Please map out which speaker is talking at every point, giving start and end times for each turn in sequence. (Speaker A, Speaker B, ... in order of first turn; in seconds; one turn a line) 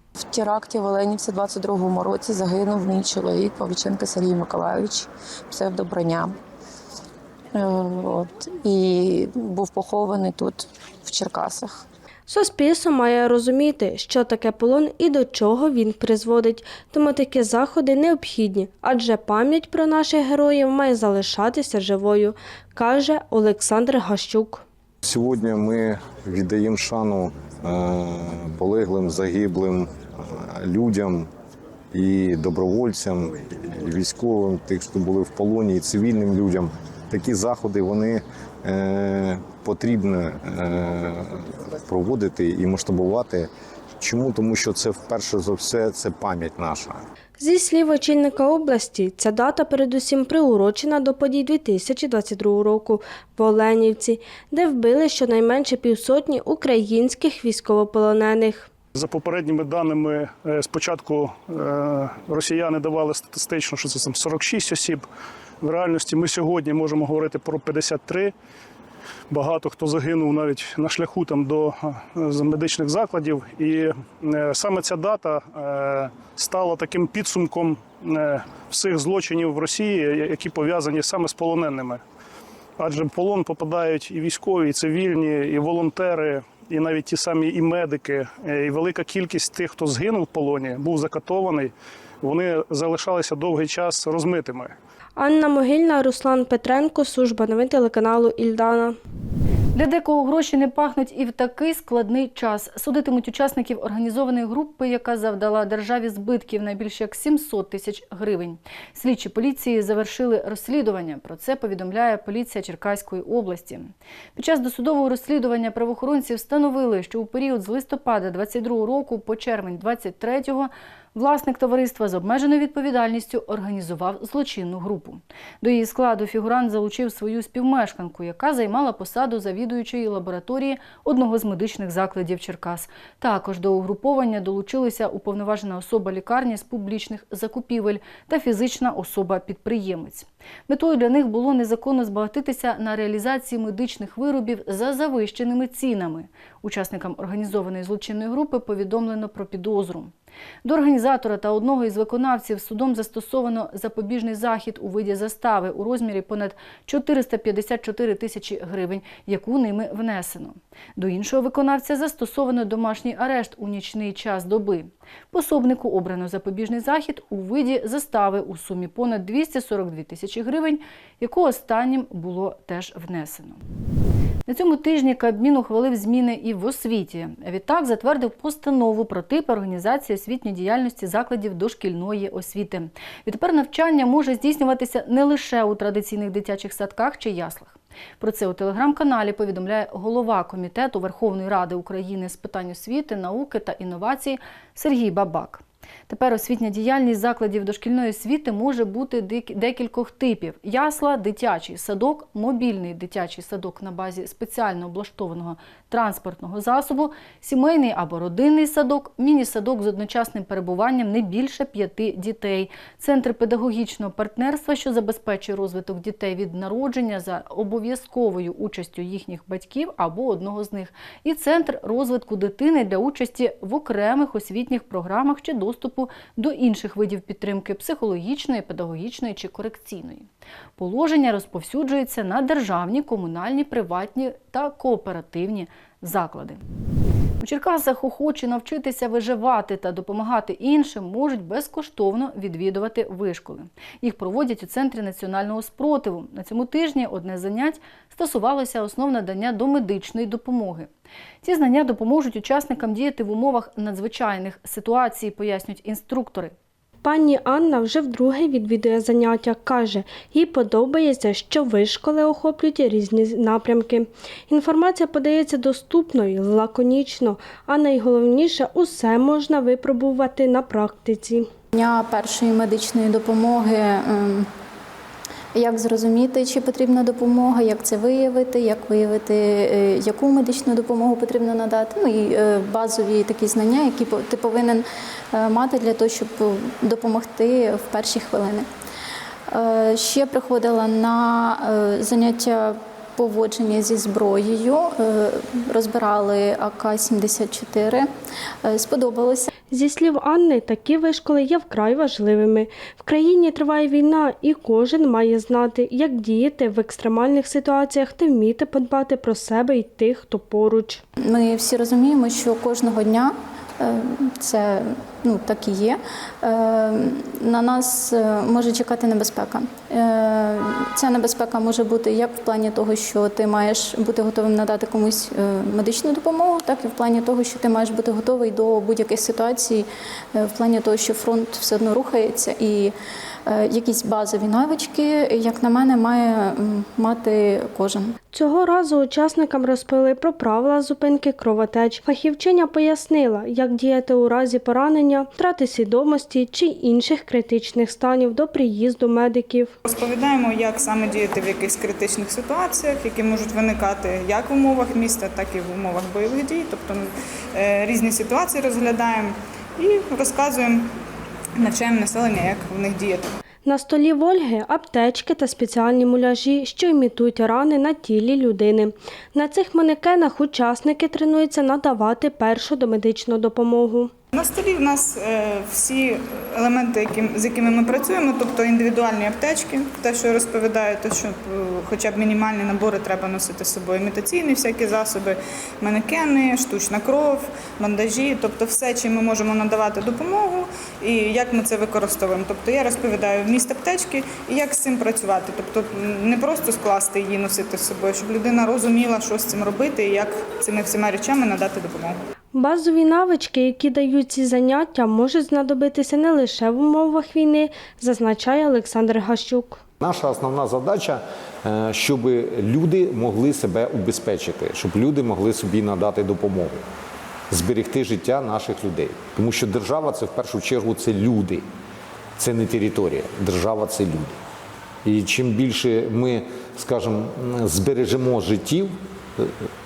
Speaker A: 0.2-6.4
Speaker A: 7.5-11.8
Speaker B: 12.3-24.6
Speaker C: 25.0-31.3
Speaker C: 31.9-43.5
Speaker C: 44.0-47.0
Speaker B: 47.4-58.7
Speaker D: 58.9-65.1
Speaker D: 65.6-68.3
Speaker D: 69.3-82.0
Speaker D: 82.8-94.8
Speaker B: 95.2-99.0
Speaker E: 99.8-150.1
Speaker E: 150.6-173.6
Speaker E: 174.5-236.6
Speaker E: 237.4-250.9
Speaker E: 251.4-256.5
Speaker B: 257.0-271.5
Speaker F: 271.7-274.5
Speaker F: 275.6-288.7
Speaker F: 289.5-298.1
Speaker F: 298.6-299.5
Speaker B: 299.7-311.0
Speaker F: 311.2-332.9
Speaker F: 333.5-338.1
Speaker B: 338.3-349.7
Speaker G: 349.9-360.9
Speaker G: 361.6-363.3
Speaker B: 363.6-374.1
Speaker G: 374.3-402.2
Speaker B: 402.5-409.8
Speaker H: 410.0-416.8
Speaker H: 417.5-421.6
Speaker H: 422.4-424.4
Speaker H: 425.1-429.7